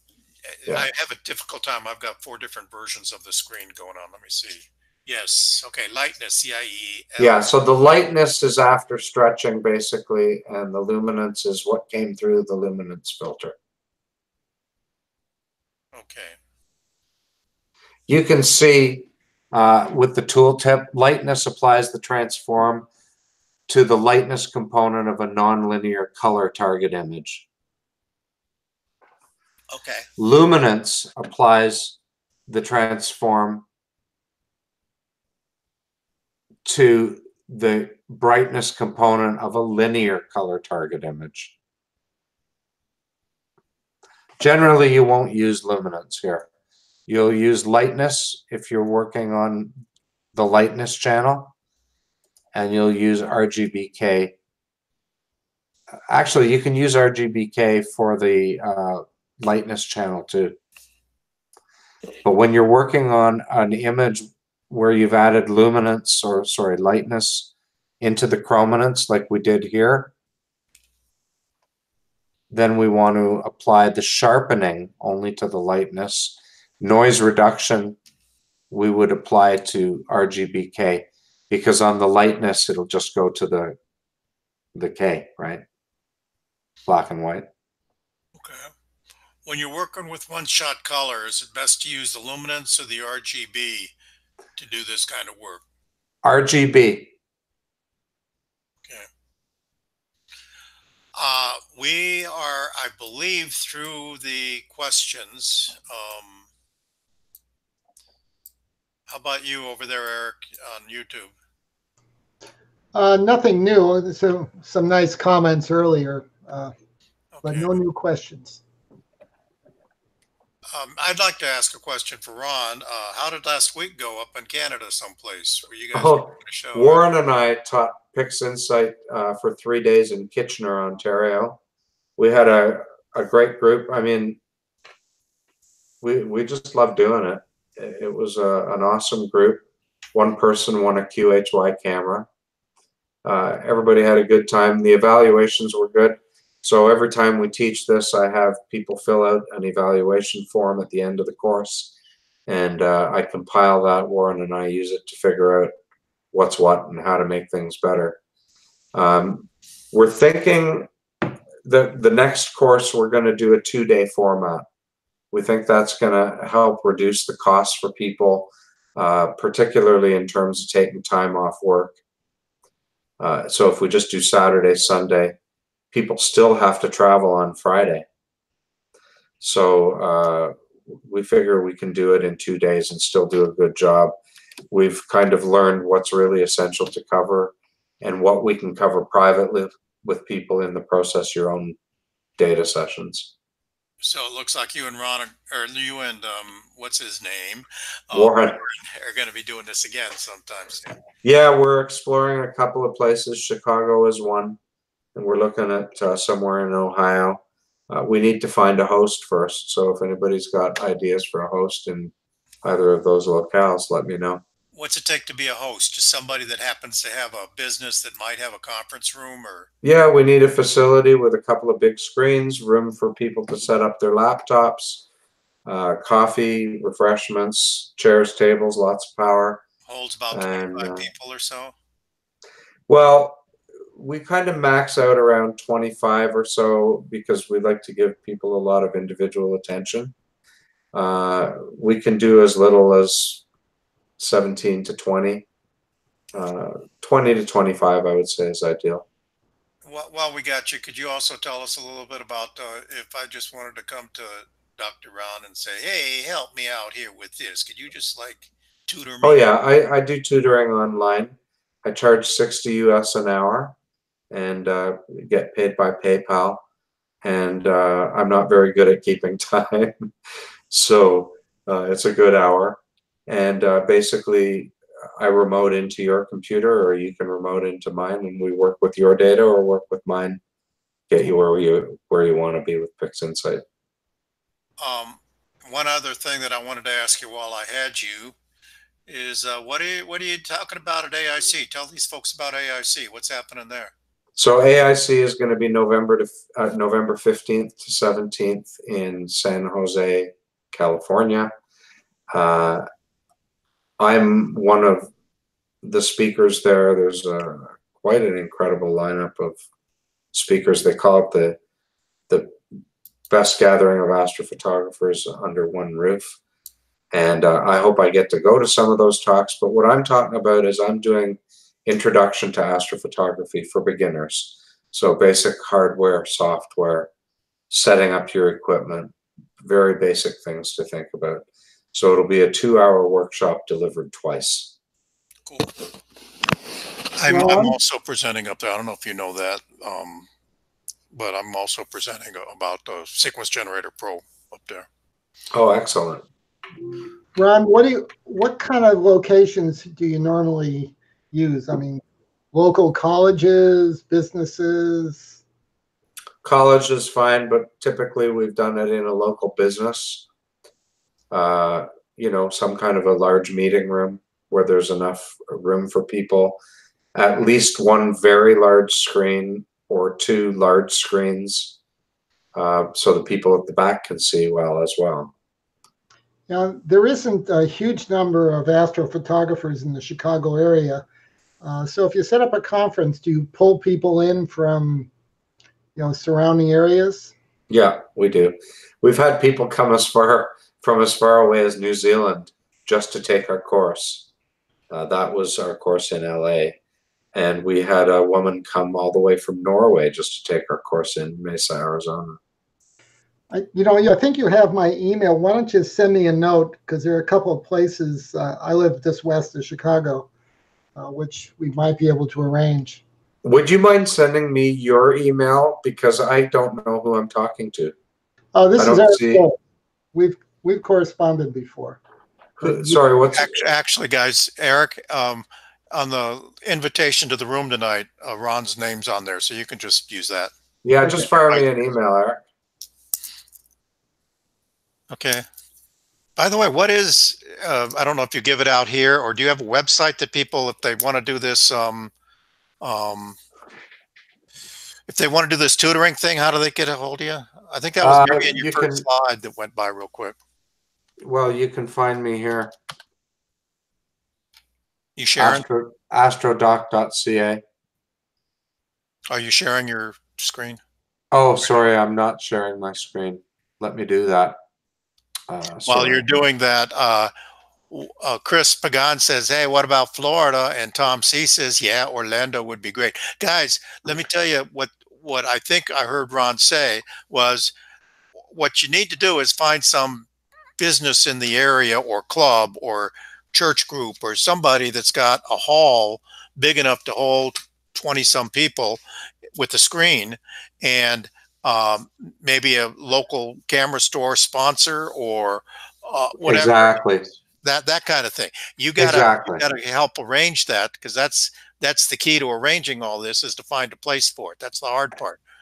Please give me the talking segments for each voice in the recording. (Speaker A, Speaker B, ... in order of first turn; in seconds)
Speaker A: 0.5-7.5, 15.9-16.4, 29.7-30.1, 88.4-88.7, 89.5-93.9, 94.6-95.6, 101.2-106.5, 109.1-111.3, 117.4-117.8, 120.7-127.0, 194.0-201.0, 214.7-219.7, 229.9-231.8, 249.8-259.5, 284.8-288.4, 289.1-293.9, 335.5-335.7, 337.2-340.3, 341.1-344.9, 423.3-430.5, 431.1-431.6, 435.1-435.4, 436.4-442.1, 442.8-443.4, 445.1-450.4, 455.2-455.6, 459.3-460.8, 465.9-467.3, 467.9-477.7, 478.5-480.3, 480.8-489.0, 489.6-497.1, 497.6-505.4
Speaker B: 7.2-13.6, 18.1-22.9, 23.7-27.5, 30.2-33.6, 36.6-41.5, 44.4-46.5, 47.1-49.7, 50.3-51.5, 52.5-54.3, 56.1-60.6, 62.2-70.1, 72.5-78.0, 78.7-83.8, 84.8-85.6, 86.9-87.5, 96.2-97.1, 126.0-131.6, 132.2-134.4, 136.0-139.6, 140.1-142.3, 143.2-151.9, 152.5-155.7, 156.3-158.2, 158.9-160.9, 161.6-164.7, 165.3-171.9, 173.2-175.3, 175.9-178.1, 179.4-184.1, 184.7-191.8, 192.4-193.3, 198.1-198.6, 201.2-204.6, 205.2-214.4, 219.8-225.1, 225.7-229.6, 230.3-231.1, 232.9-233.4, 233.9-240.1, 240.9-243.4, 244.2-245.5, 246.3-249.1, 259.2-263.7, 264.3-266.6, 267.2-270.1, 270.7-280.4, 281.1-283.6, 294.4-301.5, 302.3-302.9, 304.0-305.1, 305.8-309.6, 310.3-311.6, 312.3-312.6, 313.3-316.4, 317.1-327.1, 327.7-334.7, 345.5-346.2, 356.4-360.2, 361.3-366.6, 367.1-371.8, 372.6-375.3, 387.7-394.3, 394.9-396.8, 397.3-402.4, 413.4-417.9, 418.8-419.4, 422.6-423.6, 430.8-432.4, 448.0-449.1, 451.2-452.7, 455.4-457.6, 461.3-464.6, 465.5-466.4, 496.4-497.2, 499.0-499.6
Speaker C: 112.9-116.7, 117.4-118.6, 337.3-337.8, 347.4-352.0, 352.5-355.4, 376.5-381.1, 381.6-385.1, 386.0-387.3, 403.5-410.3, 411.0-413.0, 418.6-419.6, 420.1-422.0, 422.6-423.0